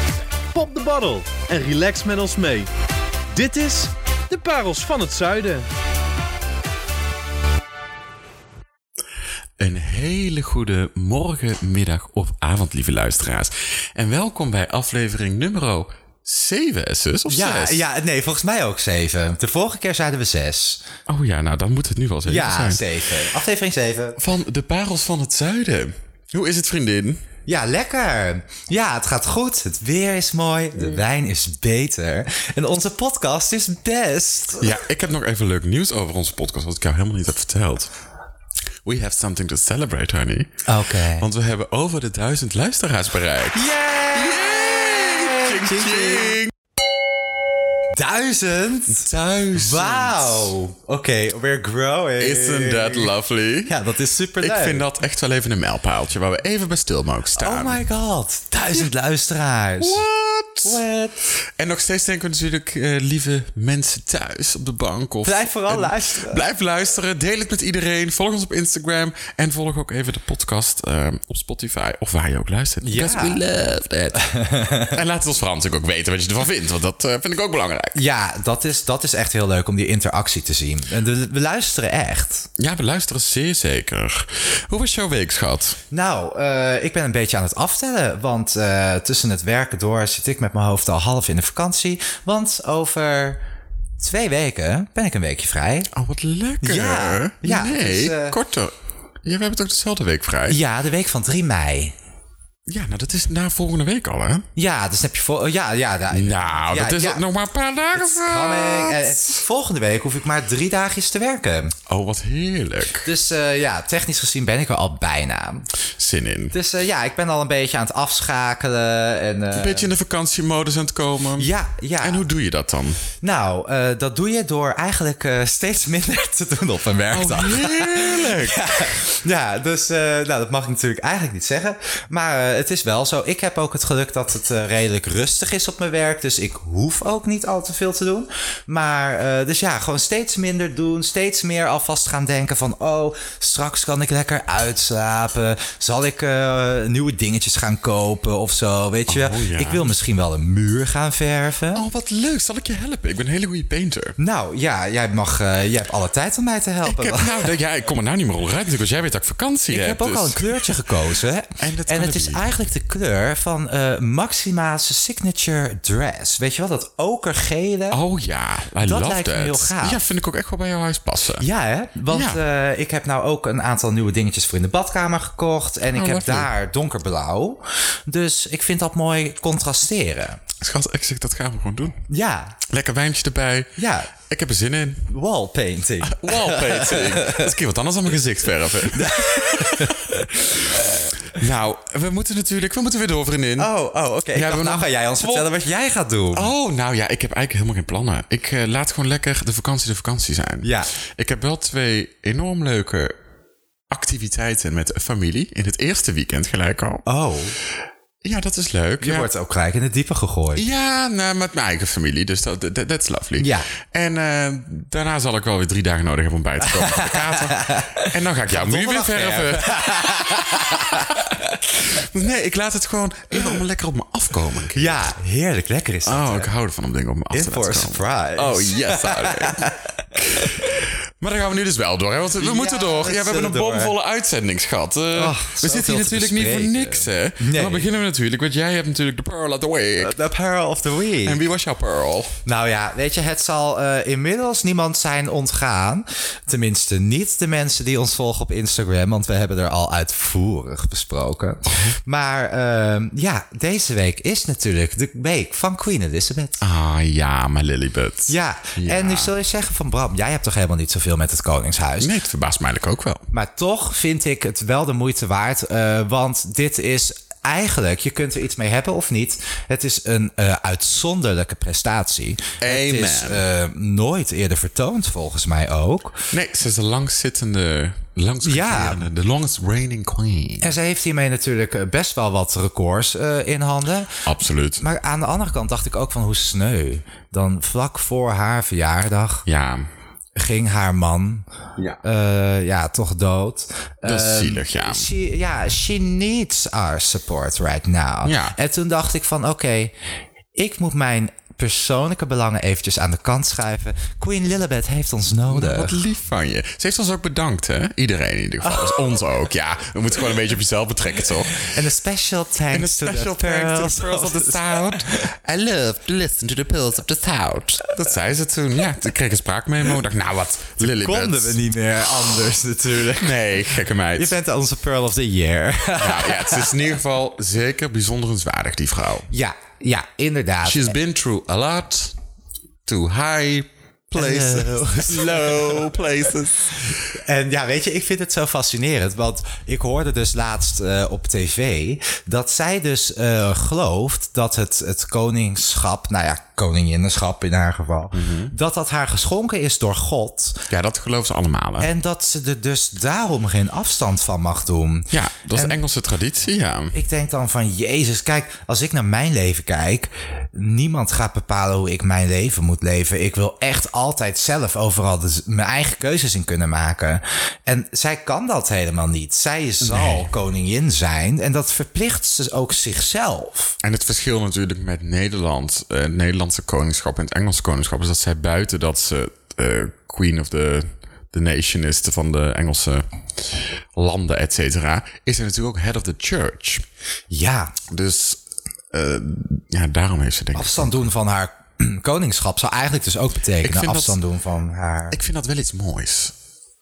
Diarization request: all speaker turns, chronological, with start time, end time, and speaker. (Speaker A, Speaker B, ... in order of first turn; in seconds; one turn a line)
Speaker A: 0.5-2.7
Speaker A: 3.3-5.7
Speaker B: 9.6-17.8
Speaker C: 17.3-20.8
Speaker B: 21.1-22.8
Speaker C: 22.2-24.2
Speaker B: 24.2-27.2
Speaker C: 27.5-34.8
Speaker B: 34.6-37.9
Speaker B: 38.8-40.6
Speaker C: 40.6-41.2
Speaker B: 41.2-46.5
Speaker C: 43.5-46.4
Speaker C: 47.9-53.1
Speaker B: 48.9-50.5
Speaker B: 52.2-53.7
Speaker C: 53.6-54.8
Speaker B: 54.4-57.8
Speaker C: 57.4-60.0
Speaker B: 59.8-60.8
Speaker C: 60.6-61.2
Speaker B: 61.6-74.2
Speaker C: 65.2-66.4
Speaker C: 72.8-73.4
Speaker C: 74.2-75.0
Speaker B: 74.9-78.0
Speaker C: 77.9-82.5
Speaker B: 82.6-85.8
Speaker C: 85.9-93.4
Speaker C: 94.0-95.9
Speaker B: 95.9-98.7
Speaker C: 96.6-98.4
Speaker B: 99.2-100.6
Speaker C: 100.5-101.9
Speaker B: 102.7-104.4
Speaker C: 104.5-107.2
Speaker B: 106.1-109.2
Speaker C: 108.0-111.7
Speaker B: 111.9-113.1
Speaker C: 113.0-115.7
Speaker B: 116.0-116.5
Speaker C: 116.5-119.9
Speaker B: 119.5-123.0
Speaker C: 121.4-122.2
Speaker C: 123.2-151.8
Speaker B: 127.1-128.9
Speaker B: 149.1-149.9
Speaker B: 151.7-154.2
Speaker C: 154.2-157.4
Speaker B: 156.8-160.8
Speaker C: 159.7-168.0
Speaker B: 161.6-162.4
Speaker B: 167.9-171.4
Speaker C: 168.8-170.0
Speaker C: 171.4-180.4
Speaker B: 172.1-172.4
Speaker B: 175.9-176.5
Speaker B: 180.6-182.0
Speaker C: 182.1-182.6
Speaker B: 182.7-185.1
Speaker C: 183.8-184.1
Speaker C: 185.1-187.5
Speaker B: 186.0-193.7
Speaker C: 188.9-191.2
Speaker C: 193.6-196.5
Speaker B: 194.3-195.5
Speaker B: 196.3-203.1
Speaker C: 200.6-200.9
Speaker B: 203.9-207.1
Speaker C: 207.1-207.5
Speaker B: 208.2-209.3
Speaker C: 209.0-210.6
Speaker B: 210.5-219.9
Speaker C: 213.4-213.7
Speaker C: 216.6-221.5
Speaker B: 220.7-225.1
Speaker C: 224.7-226.5
Speaker B: 226.0-240.2
Speaker C: 227.3-230.7
Speaker C: 232.4-233.9
Speaker C: 235.1-237.9
Speaker C: 240.0-241.4
Speaker B: 241.2-242.3
Speaker C: 242.4-256.6
Speaker B: 256.6-259.3
Speaker C: 258.3-262.1
Speaker B: 262.0-263.2
Speaker C: 263.3-276.3
Speaker B: 272.6-273.4
Speaker B: 276.3-280.8
Speaker C: 278.4-279.0
Speaker C: 280.6-284.2
Speaker B: 284.2-284.8
Speaker C: 284.8-289.4
Speaker B: 289.4-289.9
Speaker C: 290.4-291.4
Speaker C: 292.0-299.9
Speaker B: 294.0-295.1
Speaker B: 298.2-298.5
Speaker C: 300.5-306.0
Speaker B: 305.5-311.7
Speaker C: 308.6-309.0
Speaker C: 311.6-315.2
Speaker B: 312.7-321.6
Speaker C: 320.8-323.4
Speaker B: 323.1-324.4
Speaker C: 324.1-326.8
Speaker B: 326.0-329.3
Speaker C: 329.3-330.9
Speaker B: 330.6-332.1
Speaker B: 332.9-336.9
Speaker C: 334.1-335.8
Speaker C: 337.1-350.7
Speaker B: 348.1-348.5
Speaker B: 350.7-351.9
Speaker C: 351.8-355.7
Speaker B: 355.1-356.9
Speaker C: 356.9-373.7
Speaker B: 369.8-370.3
Speaker B: 373.8-386.8
Speaker C: 387.3-387.7
Speaker B: 387.9-388.4
Speaker B: 388.9-391.1
Speaker C: 390.5-395.2
Speaker B: 393.6-394.2
Speaker B: 395.1-396.3